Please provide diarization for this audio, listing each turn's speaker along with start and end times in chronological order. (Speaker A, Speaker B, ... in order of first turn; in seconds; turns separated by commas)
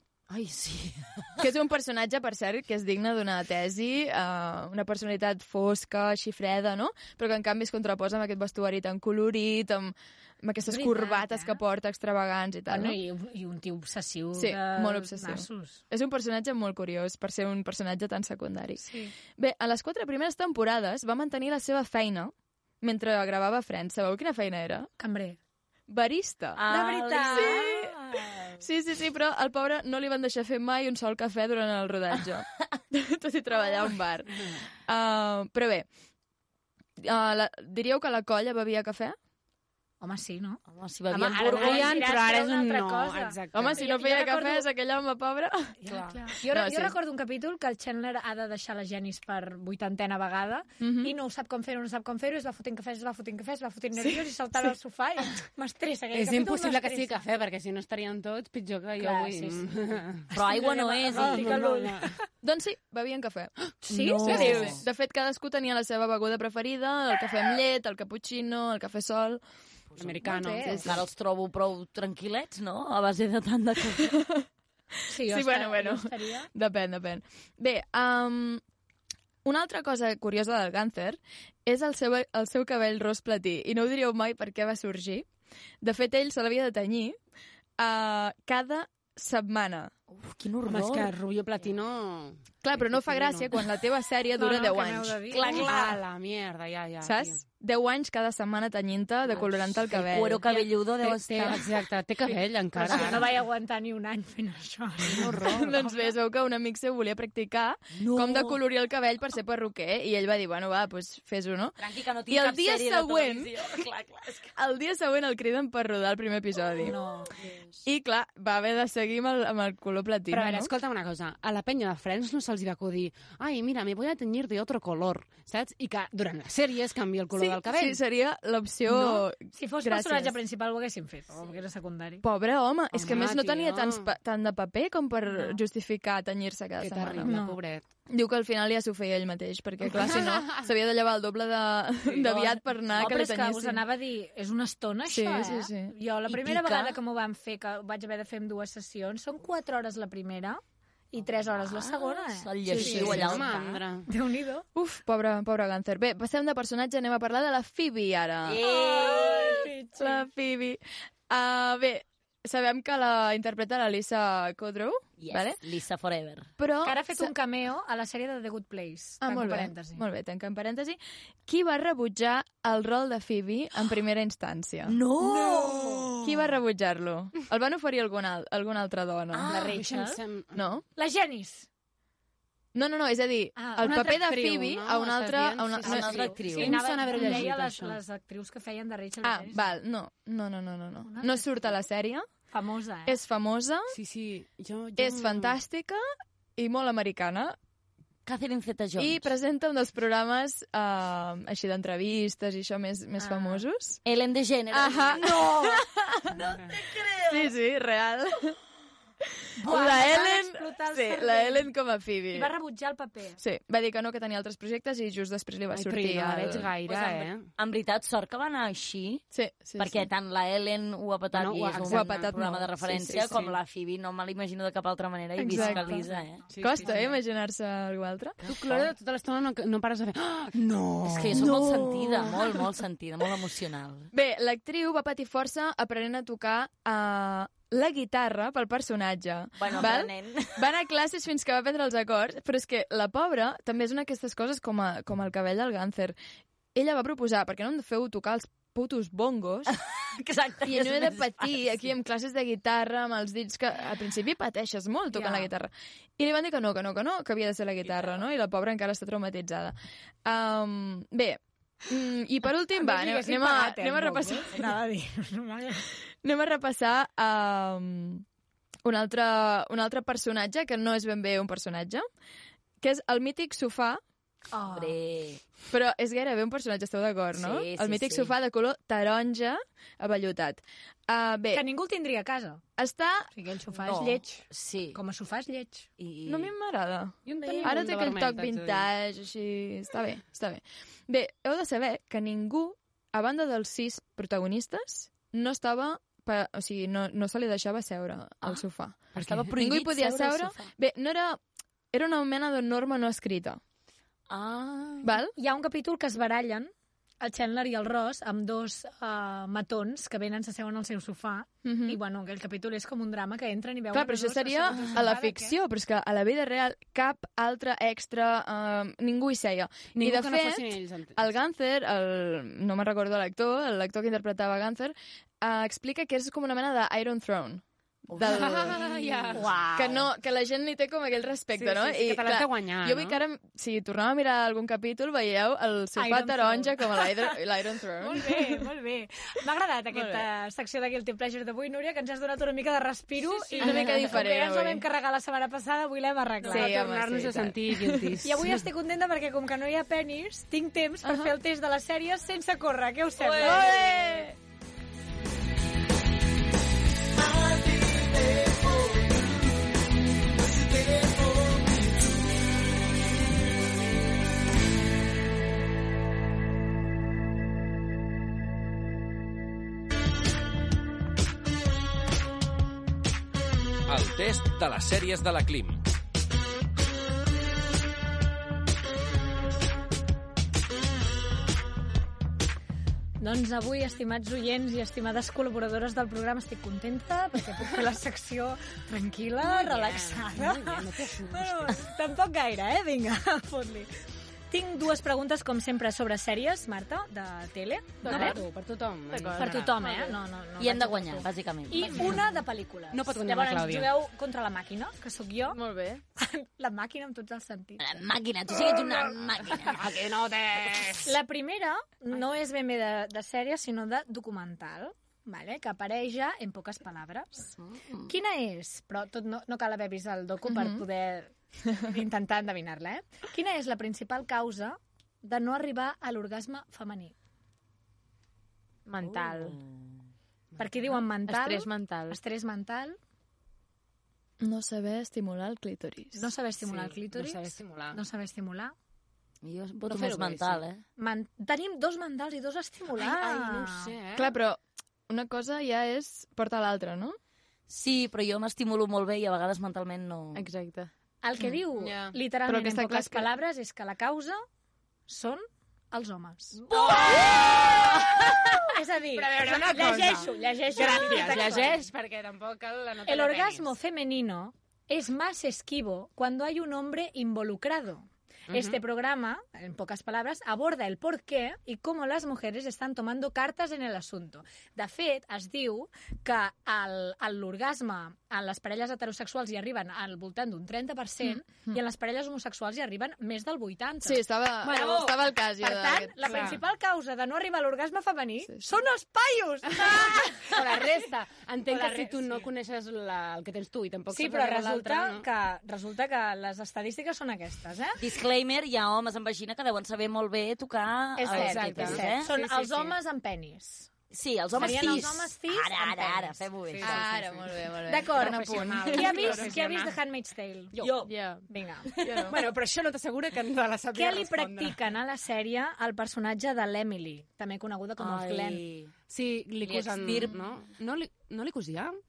Speaker A: 0.3-1.4, Speaker B: 1.4-13.0, Speaker C: 10.7-11.6, Speaker C: 12.7-15.8, Speaker B: 14.3-24.9, Speaker C: 18.8-19.1, Speaker C: 25.0-25.4, Speaker B: 25.9-28.0, Speaker A: 26.6-27.7, Speaker C: 26.7-28.6, Speaker B: 28.6-35.9, Speaker B: 37.0-39.2, Speaker C: 40.0-44.7, Speaker A: 40.7-42.1, Speaker D: 41.3-43.8, Speaker B: 43.5-45.8, Speaker C: 45.9-57.2, Speaker D: 45.9-46.2, Speaker B: 46.4-47.0, Speaker B: 50.8-51.1, Speaker B: 54.1-54.7, Speaker D: 56.1-62.1, Speaker C: 59.0-62.1, Speaker A: 60.3-61.6, Speaker B: 62.4-63.5, Speaker C: 63.9-64.8, Speaker A: 64.0-64.8, Speaker B: 64.1-69.4, Speaker D: 64.2-64.7, Speaker A: 69.9-70.2, Speaker D: 70.0-70.9, Speaker C: 70.2-70.8, Speaker B: 70.6-71.0, Speaker A: 70.8-74.2, Speaker B: 74.0-74.5, Speaker C: 75.1-76.5, Speaker B: 75.1-78.6, Speaker B: 79.4-85.3, Speaker B: 85.8-87.2, Speaker B: 87.8-89.9, Speaker A: 90.1-91.1, Speaker D: 90.7-93.5, Speaker B: 92.6-95.6, Speaker C: 94.4-95.7, Speaker A: 95.3-96.0, Speaker D: 95.4-97.4, Speaker B: 97.0-100.5, Speaker A: 99.9-101.7, Speaker D: 100.5-103.3, Speaker C: 102.8-106.1, Speaker D: 105.1-105.8, Speaker B: 105.4-111.8, Speaker A: 108.0-108.6, Speaker A: 111.8-114.5, Speaker B: 112.3-113.6, Speaker B: 114.6-117.0, Speaker C: 116.8-117.3, Speaker B: 117.8-120.7, Speaker D: 120.3-128.0, Speaker B: 127.4-130.4, Speaker C: 129.5-132.2, Speaker B: 132.2-137.4, Speaker D: 132.9-134.1, Speaker C: 135.3-135.6, Speaker D: 136.8-137.8, Speaker C: 137.2-137.6, Speaker B: 138.1-143.9, Speaker D: 139.9-140.5, Speaker D: 142.0-142.7, Speaker C: 143.0-153.5, Speaker B: 145.1-145.9, Speaker A: 146.3-147.0, Speaker A: 151.5-153.8, Speaker B: 152.7-153.4, Speaker D: 152.7-154.1, Speaker C: 154.1-154.7, Speaker B: 154.8-165.6, Speaker A: 158.5-159.6, Speaker C: 158.6-160.2, Speaker A: 165.2-166.5, Speaker B: 166.6-167.3, Speaker C: 166.8-170.0, Speaker B: 169.2-175.0, Speaker A: 174.9-176.3, Speaker C: 175.3-176.1, Speaker B: 176.2-179.5, Speaker A: 179.3-179.8, Speaker D: 179.5-180.6, Speaker C: 179.5-180.2, Speaker B: 180.5-180.8, Speaker C: 181.0-181.7, Speaker B: 182.7-186.5, Speaker C: 183.6-184.2, Speaker D: 183.8-188.0, Speaker A: 185.8-187.4, Speaker C: 185.9-189.7, Speaker B: 189.2-192.3, Speaker C: 191.0-191.8, Speaker C: 192.5-193.2, Speaker B: 193.1-193.9, Speaker D: 193.9-195.6, Speaker B: 195.0-196.0, Speaker B: 196.6-197.6, Speaker A: 198.3-199.3, Speaker B: 199.0-204.0, Speaker C: 203.2-203.6, Speaker A: 204.1-207.5, Speaker B: 204.7-206.5, Speaker B: 207.3-208.6, Speaker C: 209.6-211.7, Speaker B: 209.6-212.5, Speaker C: 212.3-213.4, Speaker B: 213.4-216.7, Speaker D: 215.7-217.5, Speaker C: 216.9-217.3, Speaker A: 217.6-219.2, Speaker B: 219.3-220.1, Speaker A: 219.8-226.4, Speaker D: 221.3-223.6, Speaker B: 221.9-222.7, Speaker C: 225.4-226.0, Speaker B: 225.5-226.1, Speaker D: 225.6-225.9, Speaker D: 226.5-227.1, Speaker B: 226.6-228.4, Speaker D: 228.4-231.5, Speaker A: 228.5-228.9, Speaker B: 231.1-232.5, Speaker A: 231.1-234.1, Speaker B: 234.1-246.2, Speaker A: 239.6-240.6, Speaker B: 246.8-249.8, Speaker A: 249.8-251.6, Speaker B: 250.6-264.7, Speaker C: 255.1-255.5, Speaker C: 262.8-265.9, Speaker B: 266.2-268.2, Speaker B: 268.8-272.1, Speaker B: 272.8-274.0, Speaker C: 274.5-275.0, Speaker A: 274.7-275.4, Speaker B: 275.7-281.7, Speaker A: 277.3-278.3, Speaker C: 281.5-282.6, Speaker B: 282.8-283.3, Speaker C: 283.3-285.9, Speaker A: 283.9-285.0, Speaker A: 286.0-286.5, Speaker B: 286.3-301.4, Speaker D: 287.3-288.9, Speaker D: 299.1-299.5, Speaker A: 299.2-300.7, Speaker B: 301.9-303.6, Speaker A: 304.3-305.2, Speaker B: 305.0-305.4, Speaker C: 305.4-315.6, Speaker B: 311.6-312.0, Speaker B: 313.9-328.8, Speaker D: 319.9-321.4, Speaker D: 328.2-329.4, Speaker C: 328.7-330.1, Speaker B: 329.7-338.6, Speaker D: 331.6-333.2, Speaker C: 336.0-337.4, Speaker C: 338.0-346.8, Speaker B: 339.9-340.3, Speaker D: 343.2-343.8, Speaker B: 343.6-344.9, Speaker D: 346.4-348.6, Speaker B: 346.5-348.2, Speaker C: 348.2-354.1, Speaker B: 351.0-351.3, Speaker B: 353.3-354.4, Speaker A: 353.3-353.7, Speaker E: 373.9-375.8, Speaker C: 383.2-393.9, Speaker D: 389.4-391.8, Speaker C: 394.5-398.4, Speaker F: 398.0-398.4, Speaker D: 398.1-400.2, Speaker F: 399.1-399.7, Speaker C: 399.4-405.6, Speaker A: 400.6-402.2, Speaker D: 401.9-402.2, Speaker D: 402.9-403.9, Speaker F: 405.5-406.0, Speaker C: 406.2-407.8, Speaker A: 407.8-410.0, Speaker D: 409.5-411.2, Speaker C: 411.0-417.5, Speaker A: 417.6-418.1, Speaker C: 418.1-427.1, Speaker B: 420.5-420.8, Speaker F: 428.9-429.6, Speaker A: 429.4-429.7, Speaker D: 430.5-431.0, Speaker C: 430.6-433.0, Speaker F: 431.3-432.2, Speaker B: 434.4-436.3, Speaker C: 436.1-438.7, Speaker D: 436.6-438.0, Speaker A: 439.4-440.8, Speaker D: 439.9-440.6, Speaker C: 441.0-443.9, Speaker D: 442.9-444.3, Speaker B: 444.2-447.2, Speaker A: 447.7-450.5, Speaker F: 450.4-450.9, Speaker C: 451.2-454.4, Speaker D: 451.8-452.1, Speaker F: 452.5-453.2, Speaker C: 455.1-461.9, Speaker D: 456.7-458.4, Speaker A: 456.7-457.8, Speaker D: 459.1-463.7, Speaker C: 463.1-490.6, Speaker D: 468.5-468.8, Speaker B: 481.3-481.8, Speaker B: 484.0-486.6, Speaker D: 484.6-485.1, Speaker D: 486.2-486.6, Speaker B: 488.5-488.8, Speaker D: 489.8-495.2, Speaker C: 491.7-492.5, Speaker C: 494.1-498.0, Speaker A: 498.0-502.3, Speaker C: 501.2-503.9, Speaker D: 501.2-503.0, Speaker A: 504.1-507.1, Speaker C: 504.6-506.4, Speaker D: 504.6-505.1, Speaker D: 506.7-507.5, Speaker B: 506.8-509.6, Speaker C: 507.9-510.7, Speaker D: 508.1-510.0, Speaker D: 510.7-511.1, Speaker A: 510.8-511.1, Speaker F: 511.0-511.4, Speaker C: 511.5-511.9, Speaker B: 512.0-512.5, Speaker D: 512.1-514.9, Speaker C: 513.9-518.6, Speaker A: 518.0-518.9, Speaker D: 519.1-522.0, Speaker A: 519.6-520.4